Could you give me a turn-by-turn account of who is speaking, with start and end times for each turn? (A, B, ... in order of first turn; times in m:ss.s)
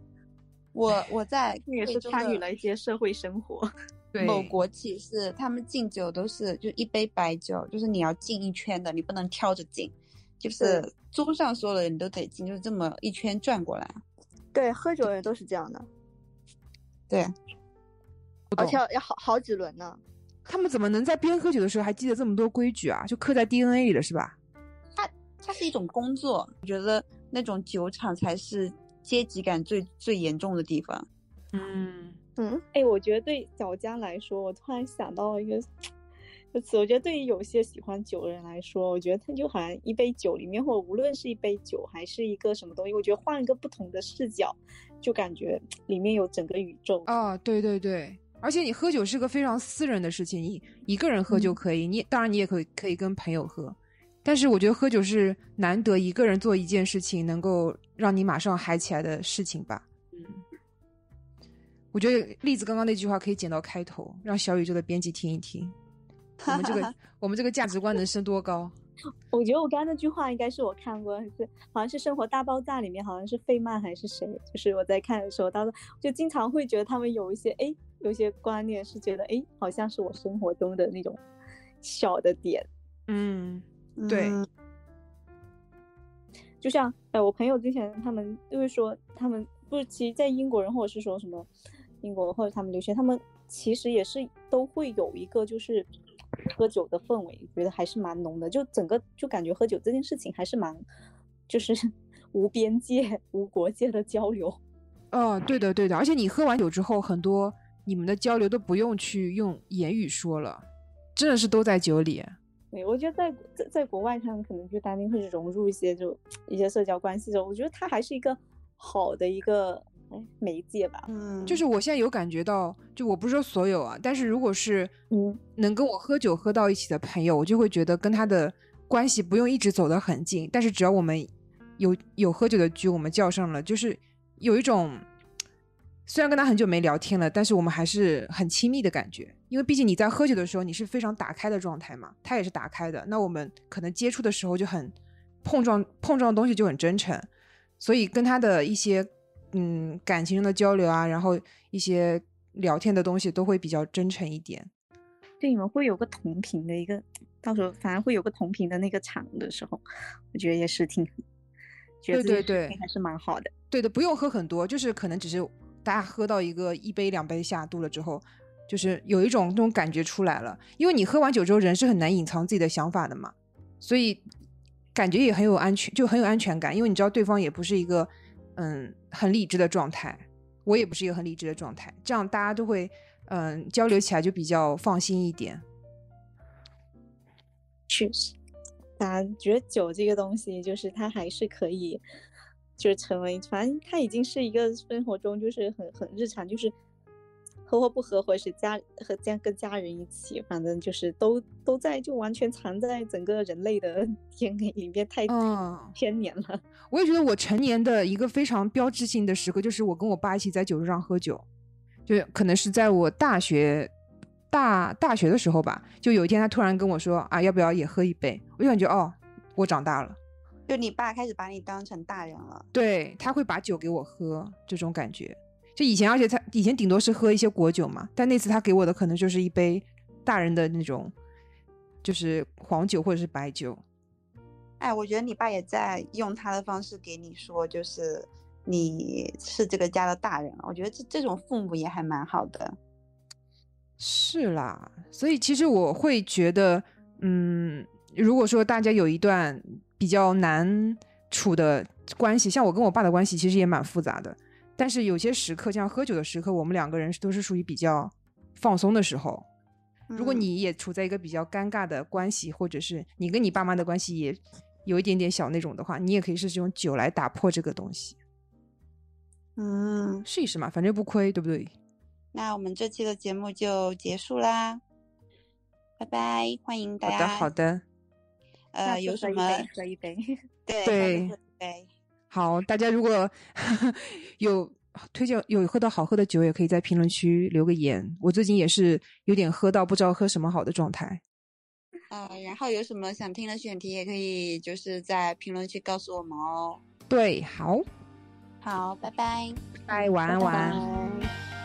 0:00.7-0:02.4 A
0:01.7-0:03.7 B
0:04.1-0:04.5 C
0:04.2-0:14.0 A
0:14.5-0:15.9 D
0:18.5-0:20.0 D
0:18.5-0:18.8 C
0:20.4-0:24.4 C
0:25.0-0:31.0 A
0:31.5-0:32.2 C
0:32.4-0:32.6 D
0:32.7-0:35.6 B
0:36.5-0:47.1 B
0:47.1-1:00.4 C
1:01.9-1:05.7 C
1:06.4-1:06.9 A
1:06.4-1:08.7 C
1:09.3-1:21.2 B
1:21.8-1:22.7 B
1:23.1-1:24.4 C
1:24.0-1:24.5 A
1:26.6-1:31.5 B
1:32.0-1:35.9 B
1:36.5-1:40.8 B
1:41.5-1:44.6 B
1:45.1-1:52.4 C
1:52.7-2:01.1 B
2:01.1-2:01.6 A
2:01.5-2:04.9 C
2:05.1-2:05.4 B
2:05.6-2:15.0 C
2:16.1-2:27.3 C
2:27.8-2:34.7 C
2:35.4-2:39.8 B
2:40.3-2:41.1 B
2:42.0-2:43.5 B
2:42.1-2:42.8 C
2:43.7-2:54.2 C
2:54.9-3:05.6 C
3:07.9-3:08.3 B
3:09.0-3:12.0 B
3:12.8-3:16.7 B
3:17.7-3:25.3 B
3:25.3-3:25.9 C
3:25.9-3:26.6 B
3:26.9-3:31.4 C
3:32.1-3:33.9 C
3:34.5-3:40.2 C
3:40.7-3:42.7 A
3:42.7-3:51.1 C
3:52.0-3:53.8 C
3:54.8-4:02.8 A
4:04.0-4:19.5 C
4:20.1-4:20.5 A
4:20.2-4:28.2 C
4:29.6-4:30.2 A
4:30.2-4:31.7 C
4:32.3-4:34.8 A
4:36.0-4:37.5 A
4:37.0-4:37.8 C
4:38.7-4:39.7 A
4:38.8-4:40.3 B
4:40.6-4:41.9 A
4:40.8-4:41.3 C
4:42.3-4:51.2 C
4:52.1-4:56.8 A
4:57.1-4:57.8 C
4:58.6-4:59.7 A
4:59.9-5:00.8 C
5:00.3-5:01.2 A